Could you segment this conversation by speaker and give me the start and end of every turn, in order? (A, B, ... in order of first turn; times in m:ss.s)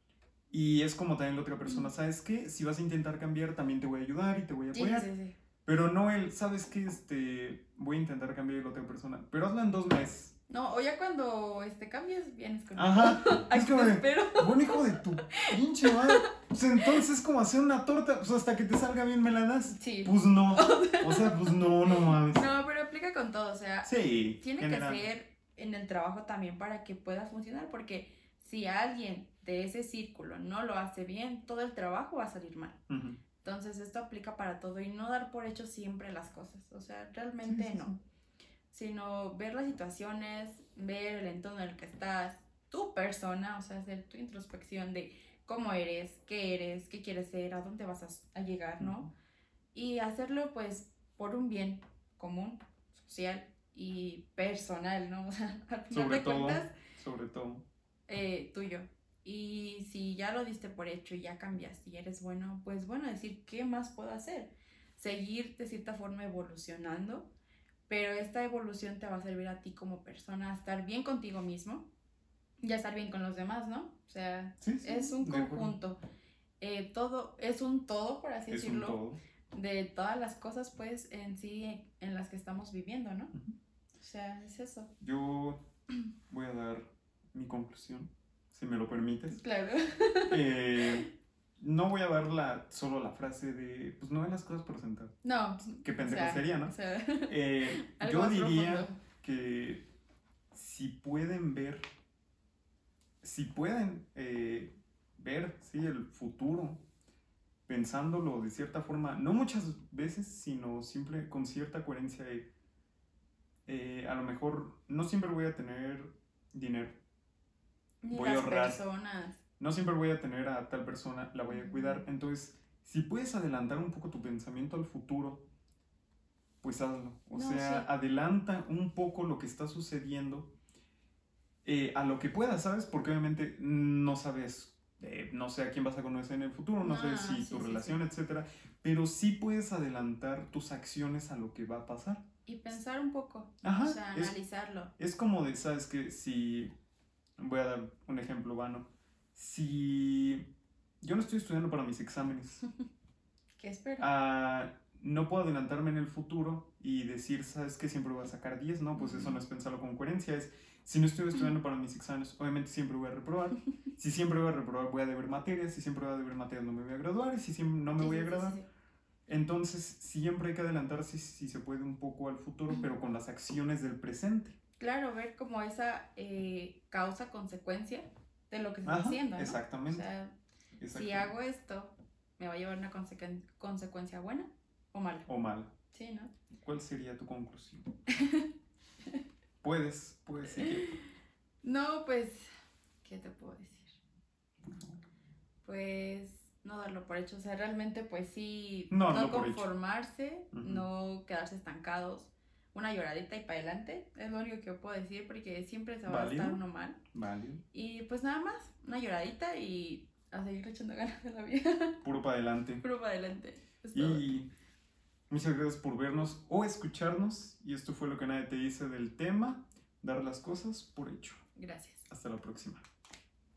0:00.5-0:05.1 A
0:04.7-0:05.4 B
0:05.6-0:10.3 A
0:10.5-0:16.2 B
0:12.7-0:22.5 A
0:19.7-0:32.8 B
0:23.8-0:25.0 A
0:32.9-0:33.2 A
0:33.4-0:37.9 B
0:37.4-0:38.0 A
0:38.7-0:49.1 B
0:48.8-0:49.1 A
0:49.7-0:56.7 B
0:55.9-0:57.6 A
0:58.1-1:07.3 B
1:07.9-1:11.9 B
1:12.6-1:16.0 B
1:14.6-1:15.7 A
1:16.6-1:19.0 B
1:18.5-1:19.2 A
1:19.5-1:23.3 B
1:24.0-1:24.9 B
1:25.0-1:25.6 A
1:26.3-1:29.4 A
1:29.3-1:31.0 B
1:30.3-1:36.7 A
1:35.2-1:39.0 B
1:37.3-1:39.9 A
1:40.5-1:41.8 A
1:43.2-1:46.8 A
1:47.7-1:52.5 A
1:53.7-1:57.0 A
1:58.0-1:59.4 B
1:58.1-1:58.8 A
1:59.6-2:05.5 A
2:01.5-2:02.0 B
2:06.6-2:10.5 A
2:07.3-2:07.9 B
2:11.6-2:22.2 A
2:16.8-2:18.0 B
2:22.4-2:24.9 B
2:23.6-2:24.3 A
2:25.0-2:26.7 A
2:27.4-2:30.5 A
2:31.0-2:32.6 A
2:33.6-2:34.0 B
2:34.0-2:48.6 A
2:39.0-2:39.4 B
2:48.0-2:48.6 B
2:49.3-2:54.6 A
2:54.8-3:00.4 B
2:58.8-3:00.0 A
3:00.8-3:01.3 A
3:00.9-3:05.2 B
3:05.2-3:05.7 A
3:05.9-3:06.3 B
3:06.6-3:07.9 A
3:08.1-3:08.5 B
3:09.6-3:10.9 A
3:10.5-3:11.0 B
3:11.6-3:12.5 B
3:13.0-3:14.0 B
3:14.7-3:14.9 A
3:15.6-3:27.0 B
3:18.9-3:19.7 A
3:20.5-3:20.8 A
3:26.0-3:26.6 A
3:27.1-3:27.6 A
3:27.7-3:32.0 B
3:32.0-3:32.8 A
3:32.8-3:34.2 B
3:33.9-3:34.5 A
3:35.3-3:41.4 A
3:41.6-3:42.0 B
3:42.1-3:42.8 A